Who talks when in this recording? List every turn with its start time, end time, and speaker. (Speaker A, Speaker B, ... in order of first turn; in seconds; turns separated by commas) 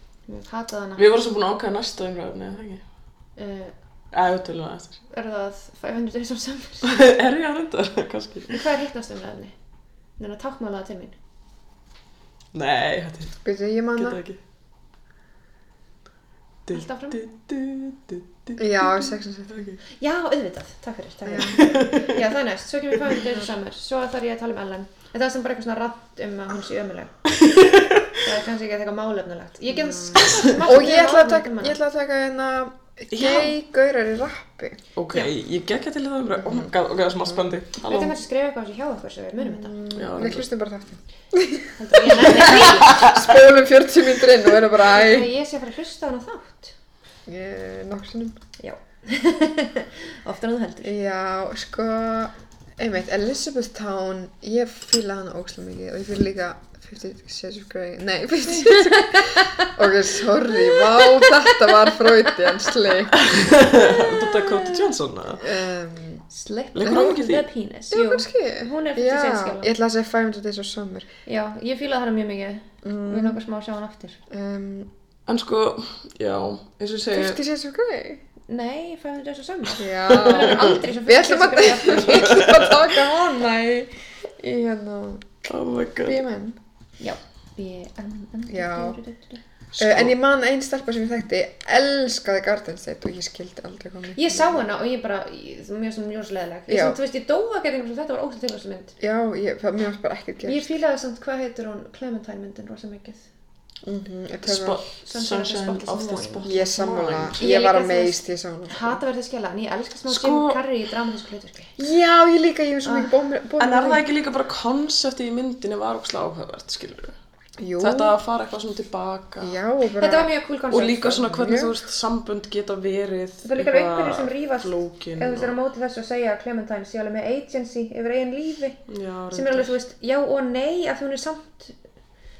Speaker A: 0.3-1.1, Speaker B: 1.0-2.8, Speaker A: 3.4-3.7, Speaker B: 4.1-5.0, Speaker A: 5.1-6.9, Speaker B: 6.8-8.6, Speaker A: 8.5-9.5, Speaker A: 10.2-11.1, Speaker B: 12.5-13.4, Speaker C: 13.4-14.2, Speaker B: 13.9-14.4, Speaker B: 16.6-19.8, Speaker A: 16.7-17.2, Speaker C: 18.6-19.7, Speaker A: 20.0-31.8, Speaker C: 21.2-22.0, Speaker B: 21.6-22.2, Speaker B: 27.3-28.1, Speaker C: 29.7-34.8, Speaker B: 30.2-30.6, Speaker B: 33.1-33.5, Speaker B: 35.0-38.1, Speaker C: 36.4-36.7, Speaker A: 37.9-39.8, Speaker C: 39.4-45.3, Speaker B: 39.9-40.5, Speaker A: 41.8-43.1, Speaker B: 42.2-43.3, Speaker A: 44.8-46.7, Speaker C: 47.3-48.4, Speaker A: 48.6-50.9, Speaker C: 50.8-63.1, Speaker A: 58.4-59.7, Speaker A: 60.5-62.4, Speaker B: 63.1-65.5, Speaker A: 63.8-64.8, Speaker C: 65.4-66.2, Speaker A: 66.3-69.7, Speaker B: 66.7-67.4, Speaker C: 67.9-71.1, Speaker A: 71.2-74.2, Speaker C: 72.8-73.3, Speaker C: 74.3-74.9, Speaker B: 75.3-77.4, Speaker C: 77.1-78.2, Speaker A: 78.5-82.6, Speaker C: 79.8-85.3, Speaker B: 80.1-80.7, Speaker B: 82.3-82.7, Speaker B: 85.5-86.2, Speaker C: 86.0-86.6, Speaker A: 87.0-89.4, Speaker C: 88.5-89.0, Speaker B: 89.7-90.1, Speaker C: 89.8-94.7, Speaker A: 94.2-98.9, Speaker C: 96.7-97.0, Speaker C: 99.0-100.7, Speaker A: 100.4-103.2, Speaker C: 103.8-104.8, Speaker B: 104.4-107.4, Speaker A: 105.0-106.5, Speaker C: 106.4-109.0, Speaker A: 107.4-111.7, Speaker B: 110.1-110.6, Speaker C: 111.8-114.0, Speaker B: 113.6-117.1, Speaker C: 117.6-118.1, Speaker B: 117.8-119.5, Speaker C: 119.4-120.3, Speaker A: 120.0-121.3, Speaker B: 120.7-125.5, Speaker C: 121.2-121.7, Speaker A: 123.4-128.8, Speaker B: 128.9-129.7, Speaker A: 129.3-131.8